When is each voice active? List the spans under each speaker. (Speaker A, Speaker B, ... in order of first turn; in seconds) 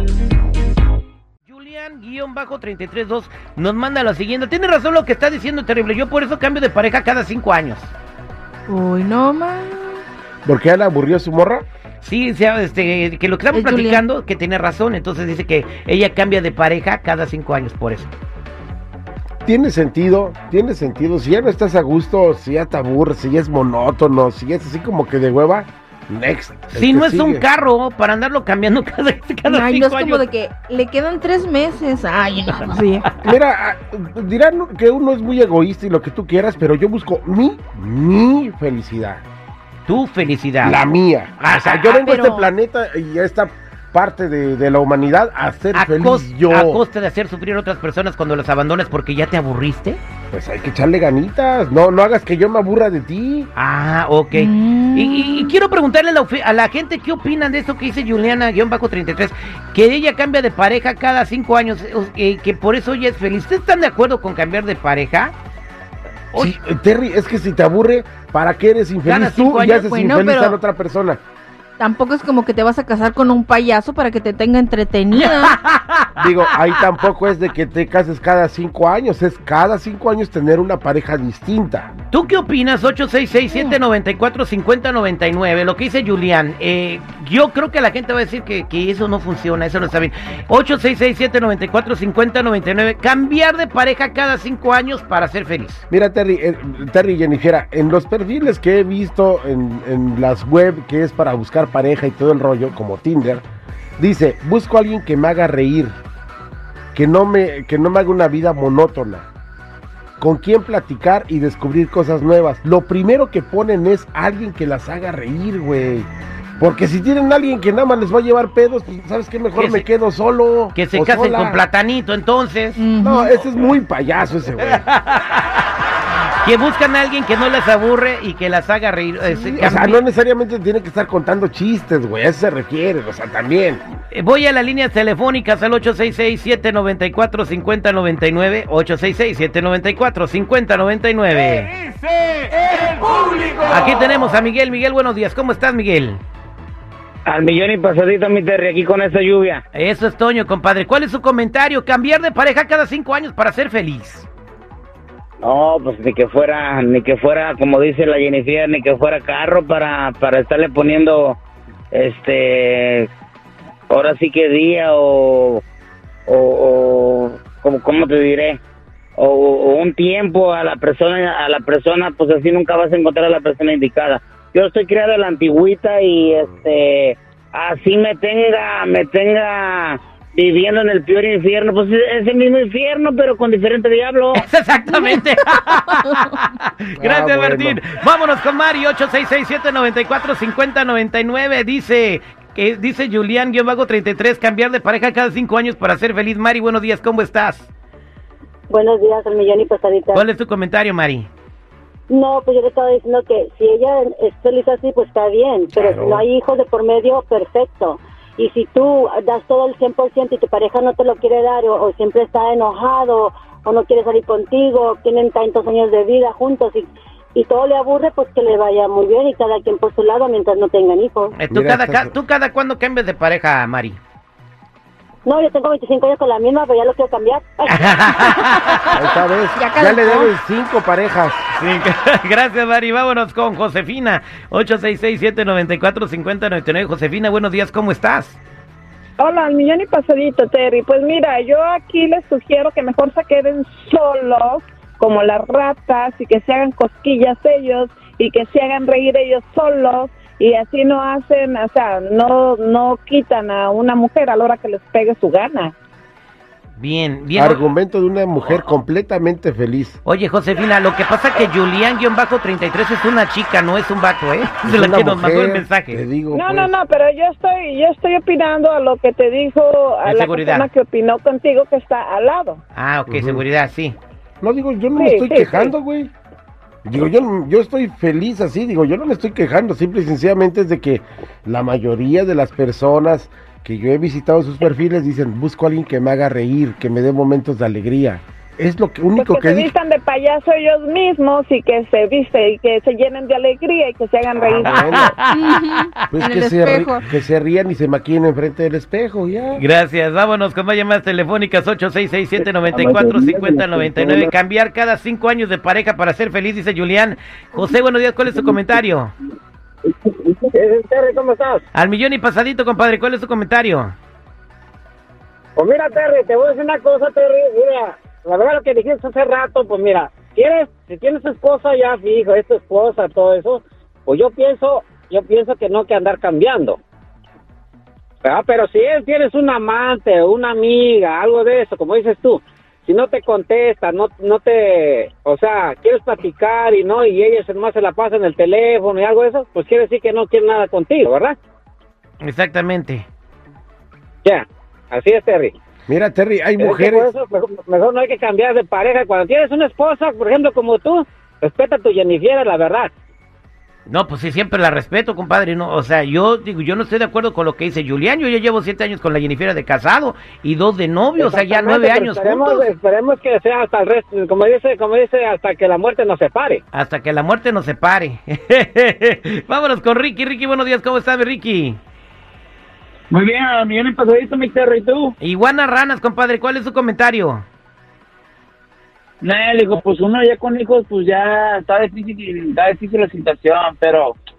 Speaker A: 1.5-7.9, 12.0-18.1, 26.7-30.2, 39.9-40.9, 41.4-42.2, 45.7-50.0, 53.5-65.3, 69.0-69.9, 75.1-76.2, 82.1-95.8, 119.5-119.9, 120.7-122.8, 124.7-125.4, 126.4-130.0, 134.1-141.7, 143.7-146.2, 149.7-154.3, 184.3-197.7, 200.1-201.3, 221.4-224.0, 227.7-228.7, 231.6-238.4, 256.8-257.7, 258.4-258.7, 260.0-266.0, 270.0-270.7, 272.7-274.0, 294.8-295.9, 299.6-309.1, 311.7-313.9, 342.2-343.1, 353.9-362.7, 366.7-371.8, 375.2-377.4
Speaker B: 8.7-10.0, 13.5-14.0, 29.5-33.1, 42.0-42.5, 54.3-55.5, 69.6-70.6, 71.8-75.5, 83.5-83.8, 122.8-123.3, 184.9-185.2, 185.8-186.3, 229.5-230.3, 295.3-297.1
Speaker C: 10.4-11.6, 19.4-27.4, 33.2-39.2, 40.6-46.8, 50.3-53.5, 66.3-71.2, 76.2-81.9, 95.9-103.4, 104.0-105.9, 106.9-109.3, 110.2-116.1, 116.6-121.6, 123.0-124.8, 129.3-133.8, 187.0-187.8, 205.7-206.2, 221.5-222.1, 228.9-231.4, 257.3-260.0, 264.6-266.8, 273.1-273.4, 274.4-276.1, 276.8-289.7, 294.4-295.1, 296.1-299.6, 345.9-347.1
Speaker D: 147.2-149.6, 155.4-161.4, 161.9-163.1, 163.9-165.6, 166.3-168.6, 169.2-184.5
Speaker E: 198.7-200.2, 202.1-221.3, 225.2-228.6
Speaker F: 239.2-255.7, 266.3-272.6, 274.9-275.7, 289.1-295.1
Speaker G: 303.2-304.3, 373.1-375.1, 379.2-384.2
Speaker H: 310.1-311.6, 315.6-326.8, 328.2-341.4, 344.2-345.5, 346.6-352.9, 361.2-366.6